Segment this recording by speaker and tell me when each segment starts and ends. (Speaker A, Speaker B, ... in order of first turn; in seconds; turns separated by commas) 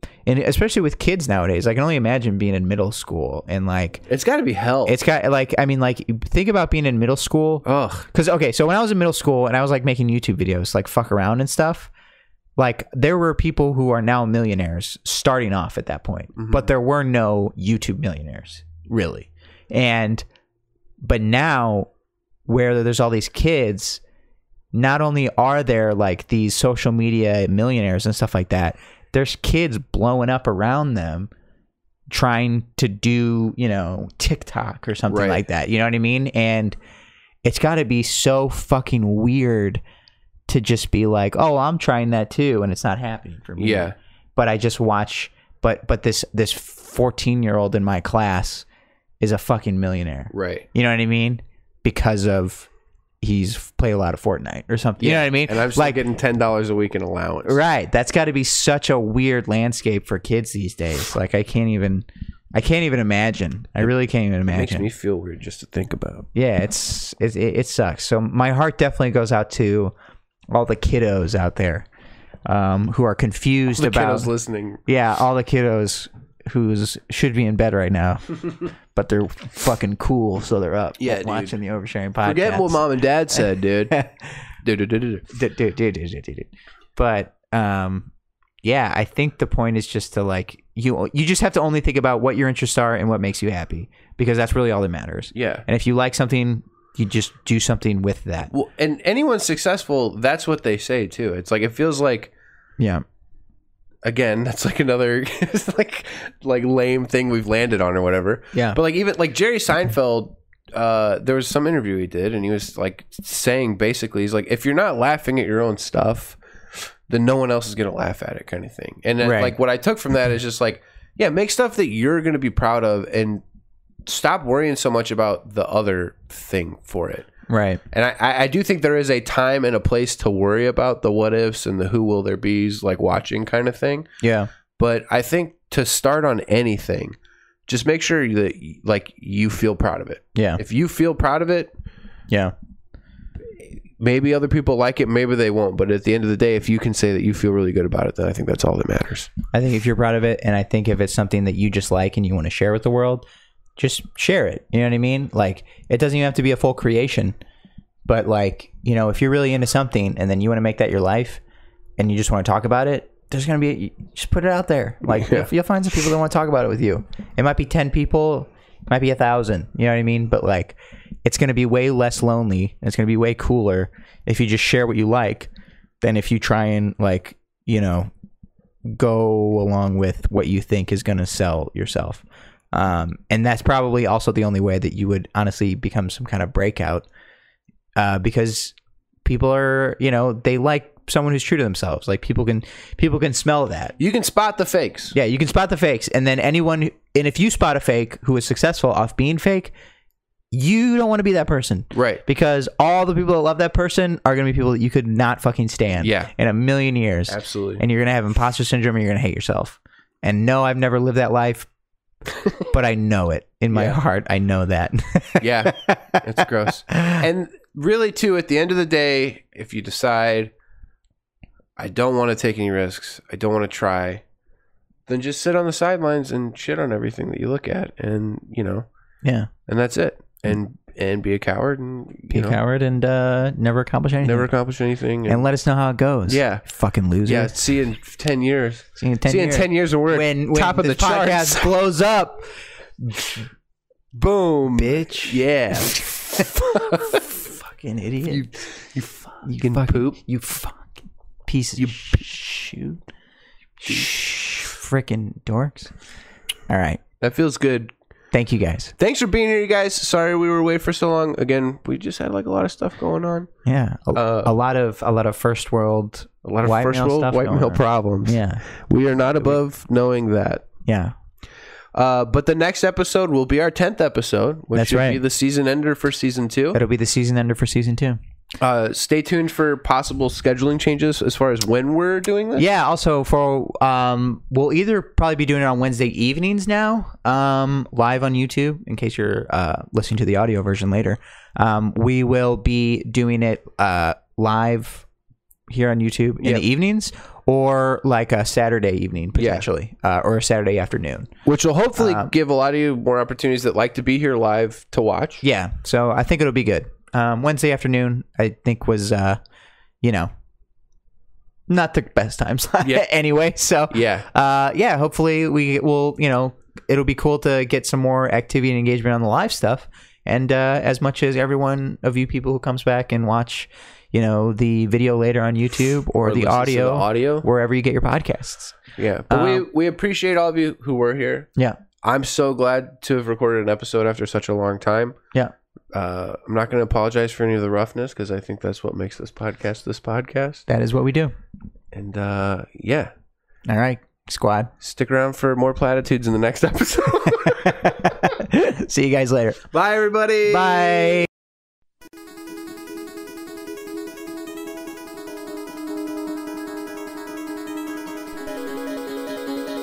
Speaker A: 0.2-4.0, Speaker B: 4.1-5.0, Speaker A: 4.8-11.9, Speaker B: 7.7-8.1, Speaker A: 12.6-20.2, Speaker B: 16.4-16.7, Speaker A: 21.0-21.9, Speaker A: 22.5-24.0, Speaker A: 24.7-31.3, Speaker A: 32.1-36.8, Speaker B: 35.1-35.4, Speaker A: 37.4-39.8, Speaker A: 40.5-48.6, Speaker B: 43.6-44.0, Speaker A: 49.2-52.7, Speaker B: 50.3-50.7, Speaker A: 53.2-56.0, Speaker B: 55.0-57.6, Speaker A: 57.5-64.9, Speaker B: 64.5-66.3, Speaker A: 66.3-69.9, Speaker A: 70.5-71.9, Speaker A: 72.5-74.3, Speaker B: 73.8-74.8, Speaker A: 74.9-78.4, Speaker A: 78.9-82.8, Speaker B: 81.0-81.6, Speaker B: 82.2-84.0, Speaker A: 83.3-84.2, Speaker B: 84.6-85.2, Speaker A: 85.3-88.1, Speaker A: 88.6-98.5, Speaker B: 95.3-95.7, Speaker B: 98.5-102.3, Speaker A: 102.8-103.0, Speaker B: 104.0-123.4, Speaker A: 108.5-108.8, Speaker A: 119.2-119.6, Speaker B: 124.1-127.3, Speaker A: 127.5-127.8, Speaker B: 127.9-134.1, Speaker A: 134.2-134.5, Speaker B: 134.8-137.2, Speaker B: 137.7-141.7, Speaker A: 140.3-140.6, Speaker B: 144.0-149.3, Speaker A: 149.5-153.2, Speaker A: 153.8-157.4, Speaker A: 158.1-161.4, Speaker A: 162.0-175.5, Speaker B: 165.1-165.5, Speaker A: 176.0-178.1, Speaker A: 178.9-187.1, Speaker A: 188.0-188.7, Speaker A: 189.2-194.0, Speaker B: 194.0-195.2, Speaker A: 195.1-199.7, Speaker A: 200.5-211.7, Speaker B: 201.9-202.2, Speaker B: 206.0-206.3, Speaker B: 207.3-207.8, Speaker A: 212.7-216.2, Speaker B: 213.7-214.0, Speaker B: 215.4-220.5, Speaker A: 216.9-217.2, Speaker B: 221.8-224.2, Speaker B: 225.1-228.9, Speaker A: 229.2-229.5, Speaker B: 229.7-232.6, Speaker A: 232.3-234.5, Speaker B: 234.2-235.5, Speaker A: 235.3-237.5, Speaker B: 236.3-236.6, Speaker B: 237.3-241.7, Speaker A: 239.0-242.5, Speaker A: 243.0-243.4, Speaker B: 244.1-247.2, Speaker A: 244.8-248.4, Speaker B: 248.3-250.2, Speaker A: 249.4-253.0, Speaker B: 251.8-252.1, Speaker A: 253.8-255.9, Speaker A: 256.7-257.0, Speaker B: 257.2-257.9, Speaker A: 258.3-258.9, Speaker B: 259.0-263.5, Speaker A: 263.6-268.6, Speaker B: 264.1-264.5, Speaker B: 266.4-270.6, Speaker A: 270.9-271.1, Speaker B: 271.9-276.8, Speaker A: 274.8-275.2, Speaker A: 276.7-278.2, Speaker B: 278.6-282.6, Speaker A: 282.6-295.1, Speaker A: 295.7-301.3, Speaker B: 299.4-299.7, Speaker B: 301.4-305.4, Speaker A: 302.0-302.3, Speaker A: 305.4-309.4, Speaker A: 310.0-310.3, Speaker A: 311.7-328.8, Speaker B: 313.9-314.3, Speaker B: 326.2-327.5, Speaker B: 329.0-331.5, Speaker A: 329.3-329.7, Speaker B: 332.0-335.2, Speaker B: 335.9-340.6, Speaker A: 340.7-341.3, Speaker B: 341.9-343.1, Speaker A: 343.7-344.7, Speaker B: 344.8-348.2, Speaker A: 347.4-349.7, Speaker B: 349.7-351.3, Speaker A: 350.5-351.3